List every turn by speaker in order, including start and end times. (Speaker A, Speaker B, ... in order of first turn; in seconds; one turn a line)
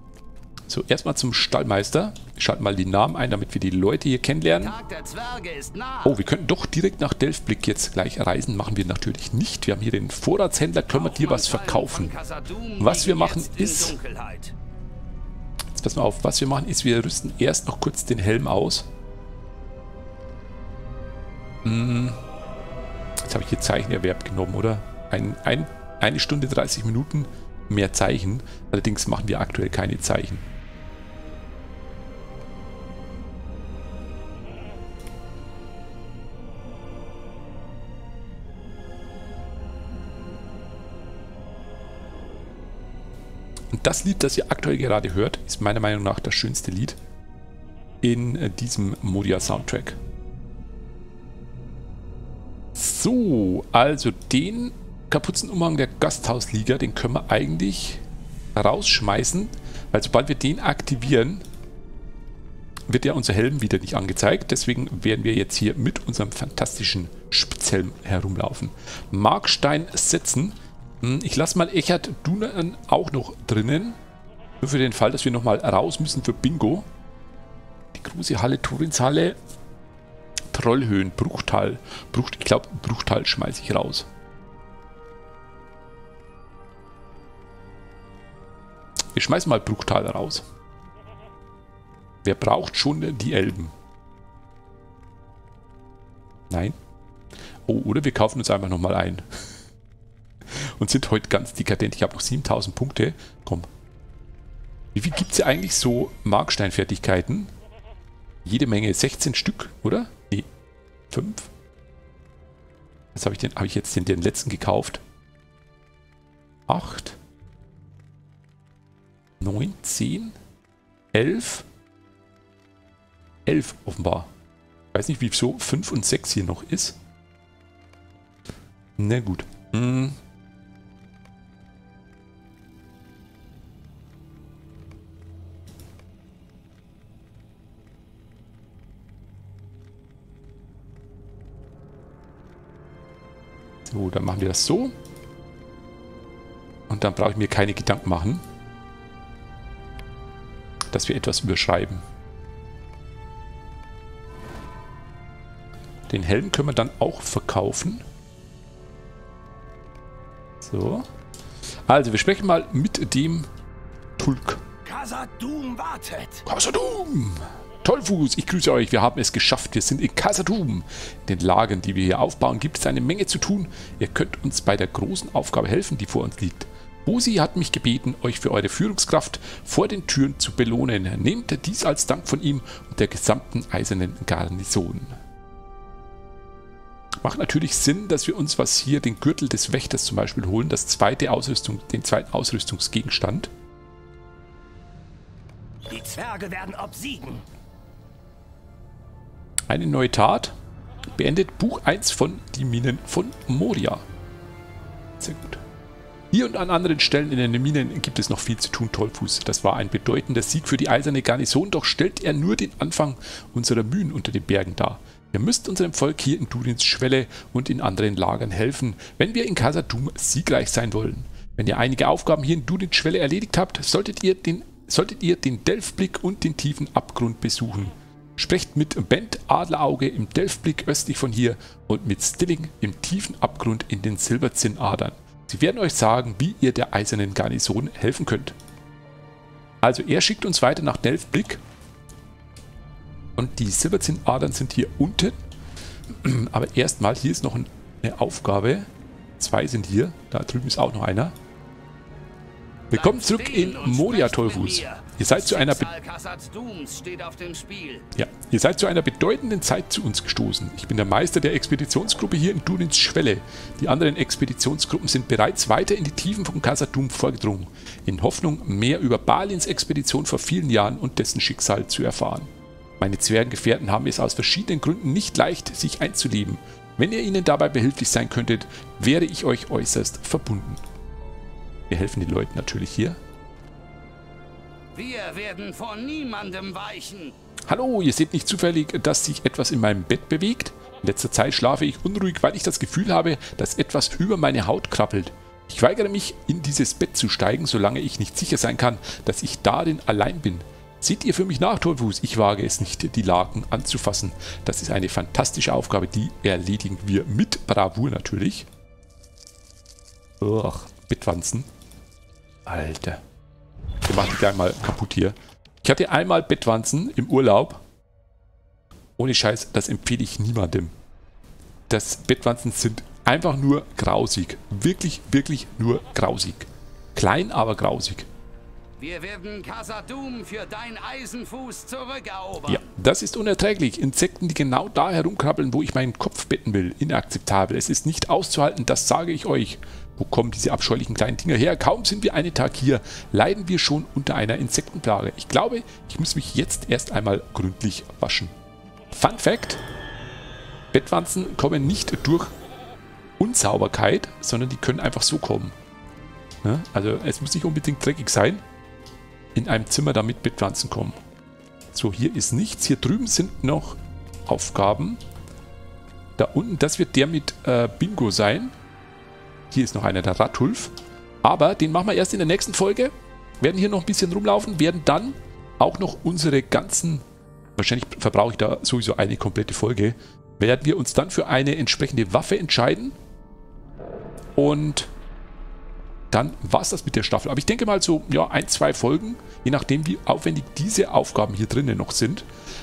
Speaker A: 0.7-4.7
Speaker B: 4.6-6.2
Speaker A: 6.0-12.1
Speaker B: 10.9-14.5
Speaker A: 12.8-13.9
Speaker A: 15.7-18.9
Speaker A: 21.6-22.2
Speaker A: 23.2-30.4
Speaker A: 43.7-47.0
Speaker A: 48.0-50.0
Speaker A: 52.7-58.0
Speaker A: 58.5-61.4
Speaker A: 62.9-74.0
Speaker A: 74.6-76.9
Speaker A: 77.9-79.4
Speaker A: 80.5-84.1
Speaker A: 89.1-90.5
Speaker A: 92.2-93.7
Speaker A: 96.5-96.8
Speaker A: 97.7-99.2
Speaker A: 100.5-103.7
Speaker A: 104.9-107.5
Speaker A: 108.4-110.5
Speaker A: 111.1-111.5
Speaker A: 113.1-115.0
Speaker A: 116.7-117.2
Speaker A: 119.4-120.3
Speaker A: 121.1-121.7
Speaker A: 123.5-124.3
Speaker A: 124.9-127.0
Speaker A: 129.0-130.2
Speaker A: 143.8-144.9
Speaker A: 146.9-148.4
Speaker A: 150.9-152.0
Speaker A: 156.1-158.0
Speaker A: 160.6-161.1
Speaker A: 161.8-163.5
Speaker A: 164.2-164.6
Speaker C: 164.8-166.4
Speaker A: 166.4-185.2
Speaker A: 187.2-193.5
Speaker C: 195.9-197.4
Speaker A: 199.7-200.5
Speaker A: 201.2-204.0
Speaker A: 205.2-205.6
Speaker A: 206.3-238.6
Speaker A: 239.8-241.6
Speaker A: 243.4-245.4
Speaker A: 246.1-248.9
Speaker A: 249.4-251.3
Speaker A: 252.9-255.9
Speaker B: 252.9-258.1
Speaker A: 258.1-272.5
Speaker A: 273.0-280.8
Speaker A: 281.9-283.2
Speaker B: 284.9-287.4
Speaker A: 287.7-308.7
Speaker A: 310.4-311.7
Speaker A: 312.6-313.2
Speaker A: 314.1-317.8
Speaker A: 319.2-320.9
Speaker A: 321.9-328.3
Speaker B: 329.0-332.9
Speaker A: 332.7-348.5
Speaker A: 349.1-349.8
Speaker A: 350.9-352.5
Speaker A: 353.4-355.7
Speaker A: 356.6-358.6
Speaker A: 359.5-361.2
Speaker A: 361.9-365.2
Speaker A: 366.4-368.7
Speaker A: 369.7-377.2
Speaker A: 377.8-383.1
Speaker A: 384.6-385.1
Speaker A: 386.3-392.5